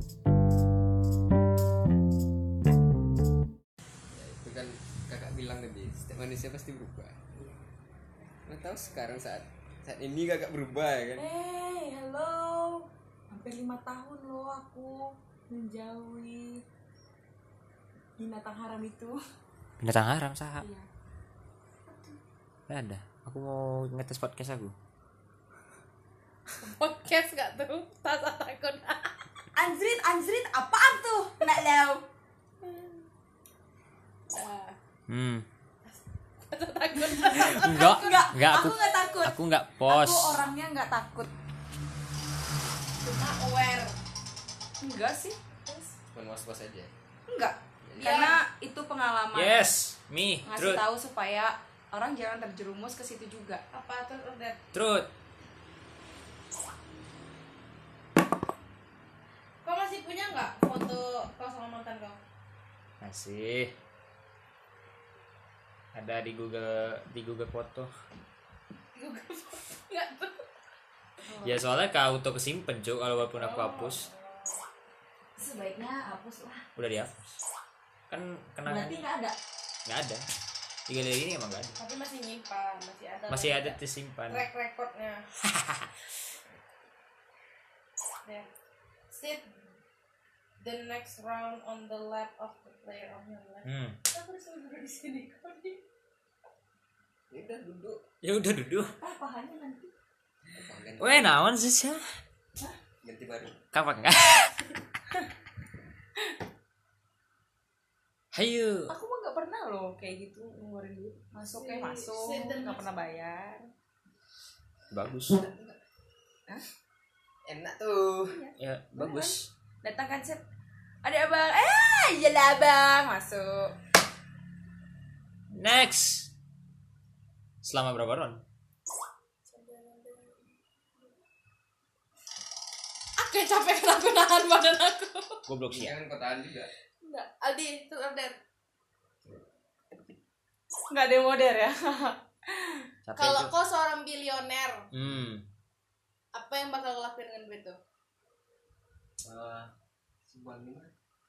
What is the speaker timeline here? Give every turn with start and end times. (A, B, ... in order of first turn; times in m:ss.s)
0:04.1-0:07.2 A
0:08.4-0:11.3 A
0:11.2-0:16.6 B
0:18.2-0:19.2 B
0:19.8-0:20.7 C
0:20.6-0:20.9 B
0:22.7-0:24.7 C
0:26.6-0:29.2 D
0:29.6-0:32.0 B
0:32.6-0:33.0 D
0:34.3-0:34.8 D
0:35.1-0:35.4 C
0:36.5-0:38.3 D
0:37.3-0:40.4 C
0:37.4-0:41.3 B
0:43.0-0:44.0 D
0:44.8-0:45.4 B
0:46.1-0:46.9 A
0:47.3-0:49.7 B
0:47.8-0:48.2 A
0:48.0-0:48.3 D
0:49.3-0:50.8 C
0:50.4-0:53.6 B
0:53.7-0:54.6 D
0:54.7-0:55.1 C
0:59.6-1:02.2 D
1:03.0-1:03.7 C
1:05.9-1:07.9 C
1:09.0-1:10.5 D
1:11.3-1:11.6 B
1:11.4-1:14.1 C
1:13.4-1:14.5 D
1:15.4-1:16.7 B
1:16.8-1:17.4 C
1:18.1-1:19.0 C
1:18.6-1:19.3 B
1:19.9-1:20.2 C
1:20.9-1:21.8 C
1:21.8-1:25.2 D
1:23.3-1:24.4 C
1:25.4-1:25.9 C
1:29.1-1:29.5 D
1:30.6-1:35.8 D
1:33.6-1:34.0 C
1:37.3-1:38.0 A
1:38.2-1:38.9 C
1:38.9-1:39.9 B
1:40.5-1:41.3 A
1:41.0-1:42.0 C
1:43.0-1:43.6 A
1:43.7-1:44.6 C
1:48.3-1:48.9 C
1:48.9-1:53.7 B
1:51.5-1:52.9 D
1:54.9-1:55.5 C
1:57.4-1:58.4 A
1:58.3-2:00.4 B
1:58.6-1:59.5 C
2:01.0-2:03.7 B
2:05.5-2:06.3 C
2:07.6-2:08.4 C
2:09.5-2:10.4 D
2:13.2-2:15.4 D
2:15.5-2:15.9 C
2:15.7-2:16.7 A
2:17.0-2:18.4 D
2:20.9-2:22.8 B
2:23.0-2:23.5 C
2:23.2-2:24.9 D
2:24.9-2:25.4 C
2:26.3-2:27.8 D
2:29.2-2:29.7 A
2:30.3-2:30.9 A